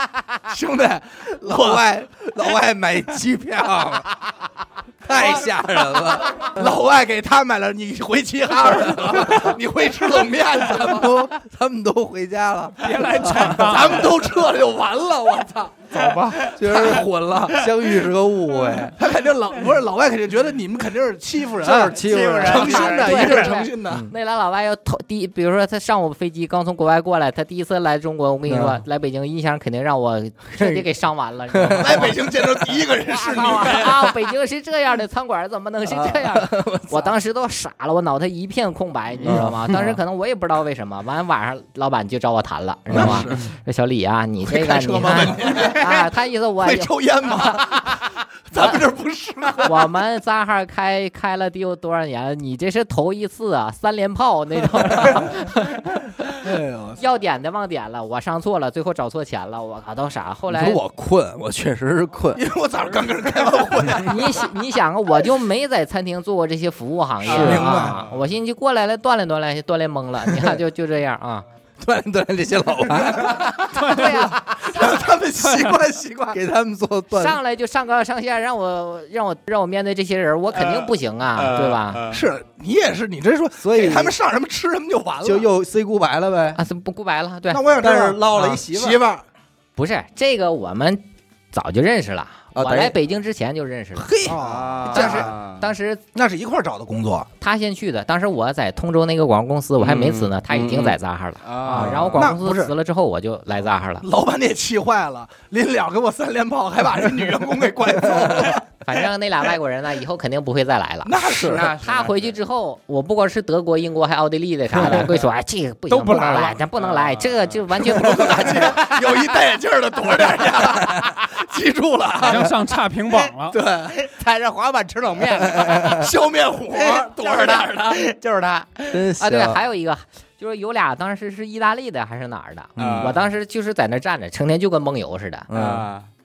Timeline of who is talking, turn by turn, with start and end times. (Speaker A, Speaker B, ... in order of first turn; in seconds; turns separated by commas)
Speaker A: 0.4-1.9, Speaker B: 1.4-4.2, Speaker B: 5.0-6.6, Speaker A: 5.1-11.3, Speaker B: 8.5-9.6, Speaker B: 10.3-13.7, Speaker C: 12.8-14.2, Speaker A: 13.5-16.0, Speaker C: 15.9-16.5, Speaker B: 16.4-19.0, Speaker A: 16.7-17.0, Speaker A: 18.8-24.1, Speaker B: 21.6-23.2, Speaker D: 22.0-23.6, Speaker E: 22.4-32.2, Speaker B: 23.9-24.1, Speaker B: 28.5-28.8, Speaker B: 30.6-30.9, Speaker B: 31.5-32.9, Speaker A: 31.8-34.1, Speaker E: 33.1-48.8, Speaker B: 35.8-37.1, Speaker B: 39.2-40.0, Speaker B: 42.9-43.4, Speaker A: 43.0-43.3, Speaker A: 44.4-49.8, Speaker E: 49.6-56.0, Speaker A: 56.3-57.0, Speaker E: 57.0-60.8, Speaker B: 60.5-62.4, Speaker A: 62.3-64.4, Speaker E: 63.9-71.4, Speaker A: 67.2-68.0, Speaker D: 67.2-68.1, Speaker B: 71.8-73.9, Speaker C: 73.7-74.3, Speaker E: 73.8-74.4, Speaker A: 74.6-76.4, Speaker B: 76.3-77.4, Speaker E: 77.1-82.0, Speaker D: 80.5-82.2, Speaker A: 82.1-85.5, Speaker B: 83.6-84.2, Speaker B: 85.2-86.6, Speaker E: 86.5-87.6, Speaker A: 87.5-89.2, Speaker B: 87.8-89.0, Speaker E: 89.8-94.2, Speaker B: 92.5-92.9, Speaker A: 94.1-95.3, Speaker D: 94.3-95.6, Speaker E: 94.9-96.0, Speaker A: 96.1-97.3, Speaker E: 97.4-104.1, Speaker D: 99.8-102.2, Speaker B: 101.7-102.2, Speaker A: 101.8-102.7, Speaker A: 104.0-108.7, Speaker B: 108.2-108.5, Speaker E: 108.8-118.6, Speaker A: 111.0-111.7, Speaker D: 111.3-112.4, Speaker D: 114.8-115.2, Speaker C: 115.9-116.6, Speaker D: 116.8-117.5, Speaker A: 117.7-122.5, Speaker B: 118.1-118.8, Speaker B: 120.7-121.1, Speaker C: 122.2-123.5, Speaker A: 123.5-123.9, Speaker D: 123.8-126.1, Speaker B: 125.5-126.0, Speaker A: 125.8-128.0, Speaker D: 126.7-129.0, Speaker B: 128.9-129.6, Speaker E: 129.2-135.5, Speaker B: 132.8-133.2, Speaker D: 132.8-133.2, Speaker B: 135.5-135.9, Speaker D: 135.5-136.1